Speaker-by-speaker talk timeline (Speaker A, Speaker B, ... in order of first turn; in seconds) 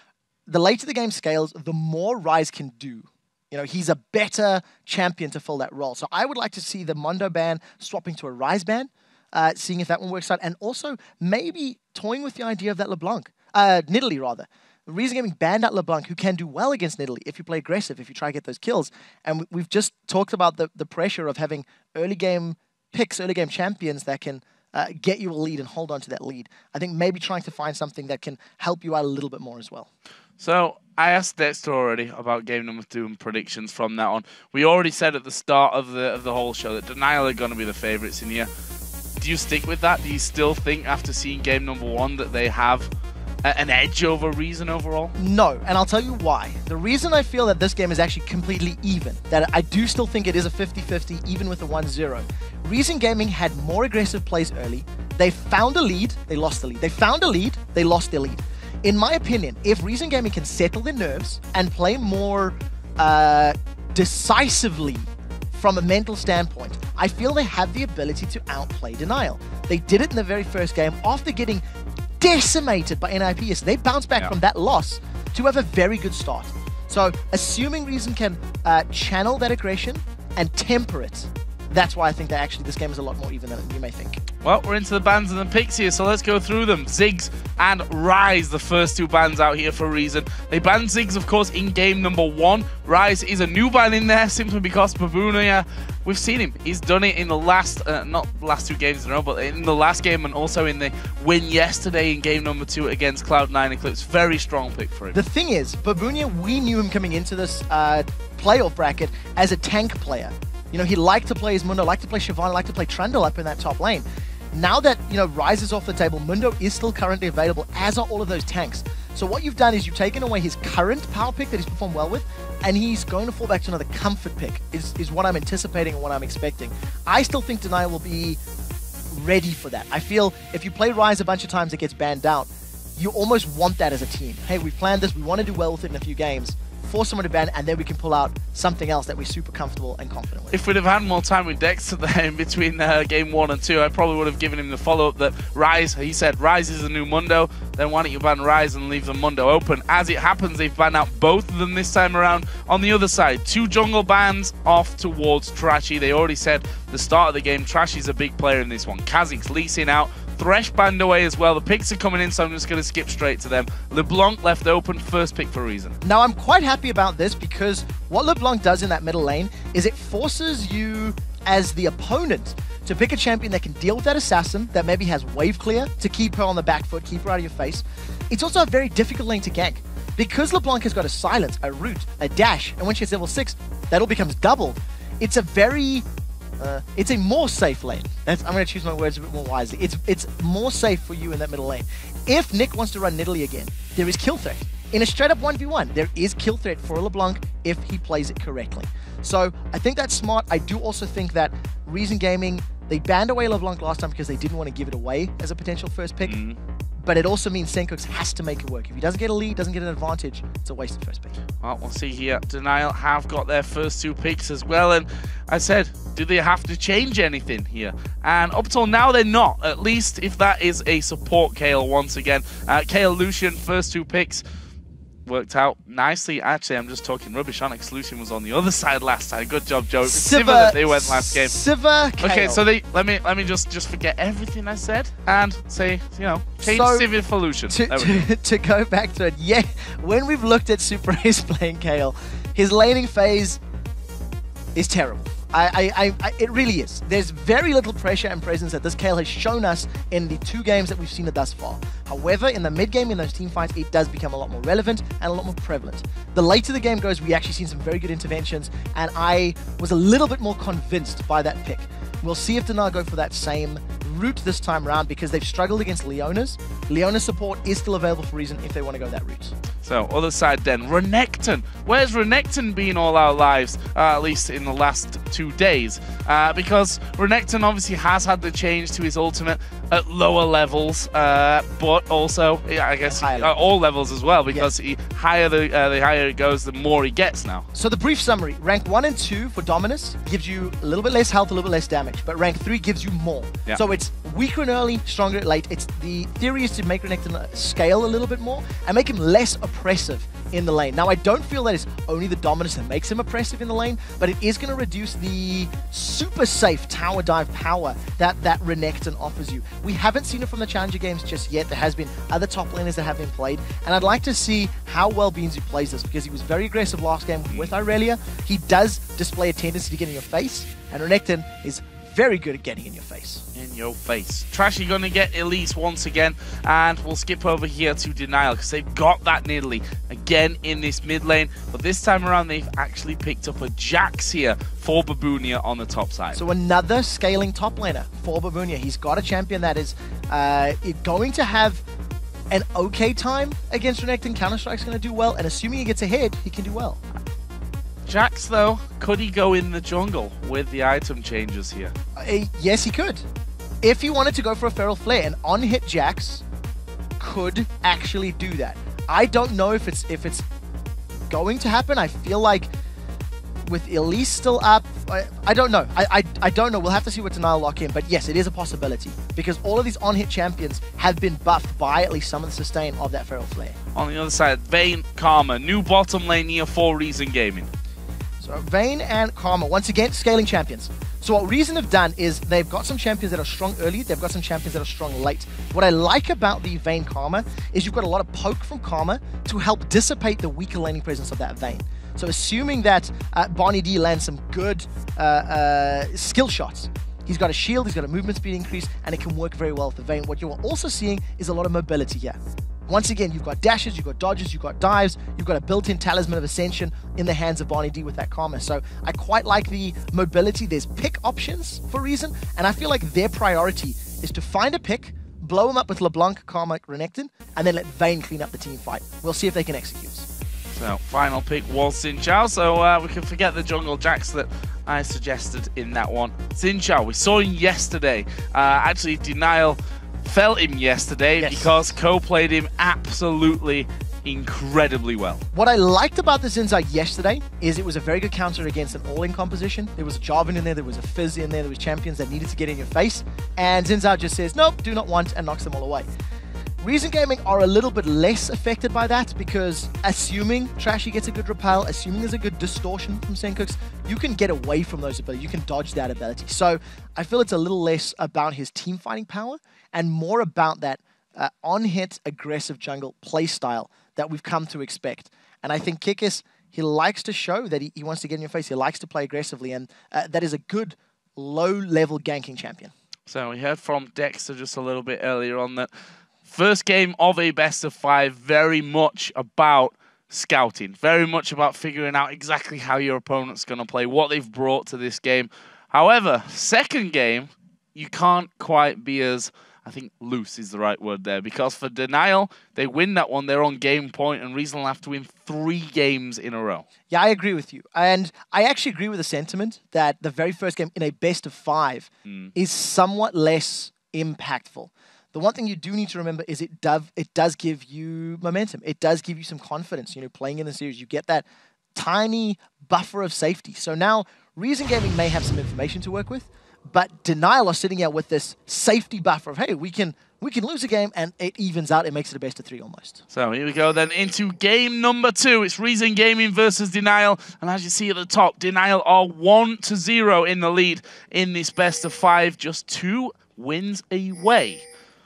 Speaker A: 0.5-29.9, 45.2-71.6, 72.2-84.2, 105.1-128.4, 129.1-140.6, 166.0-186.1, 186.6-206.3, 207.0-211.3, 230.0-232.6, 236.6-237.1, 237.7-243.6, 244.7-269.5, 283.1-283.5, 287.7-323.4, 336.3-341.8, 342.5-347.0, 352.1-353.2, 353.8-356.4, 357.2-360.4, 361.3-362.7, 363.6-373.8, 378.4-420.3, 431.4-431.7, 435.5-446.1, 446.8-472.9, 497.1-523.2
Speaker B: 30.4-38.5, 39.2-42.9, 43.4-45.1, 84.4-105.2, 140.5-166.0, 206.2-206.6, 211.6-224.4, 225.2-231.5, 232.2-238.3, 269.8-287.6, 323.5-336.4, 348.1-351.9, 373.9-377.7, 420.7-435.4, 473.3-475.9, 476.4-496.8, 502.2-502.5, 523.3-534.8